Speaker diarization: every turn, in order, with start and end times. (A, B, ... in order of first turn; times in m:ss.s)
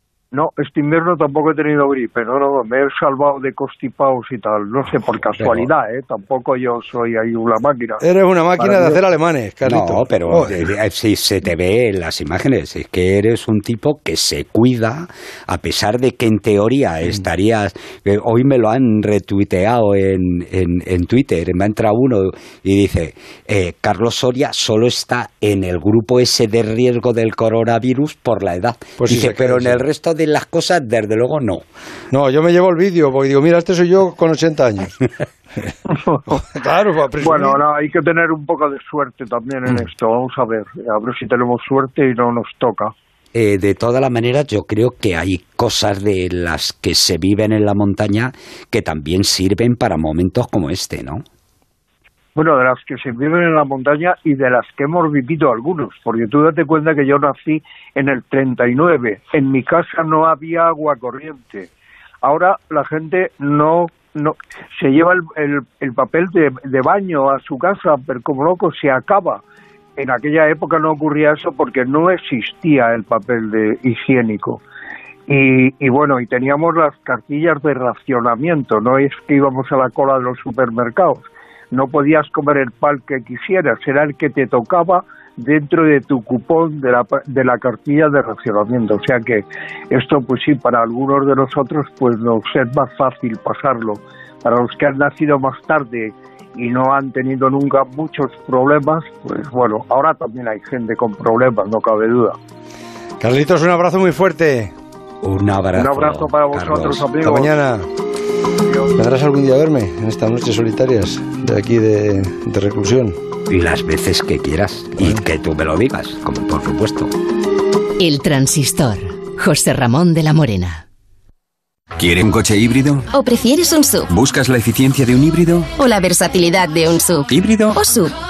0:00.3-0:08.0 A
0:05.4-0:05.7 B
0:08.0-0:10.6 C
0:08.6-0:09.0 A
0:09.6-0:31.6 B
0:29.0-0:29.8 C
0:32.1-0:35.1 C
0:35.9-0:36.2 A
0:36.3-0:37.6 C
0:37.2-0:42.9 A
0:43.3-0:51.2 B
0:52.4-1:01.7 A
1:02.2-1:09.4 A
1:10.0-1:14.6 A
1:15.3-1:42.4 A
1:43.2-1:44.7 C
1:45.2-1:47.0 B
1:45.7-1:47.5 A
1:47.2-1:47.9 C
1:49.0-1:53.1 C
1:53.5-1:57.1 B
1:58.0-2:00.8 D
2:02.0-2:03.1 E
2:03.1-2:04.0 F
2:04.0-2:05.7 E
2:05.8-2:08.1 F
2:07.3-2:07.8 E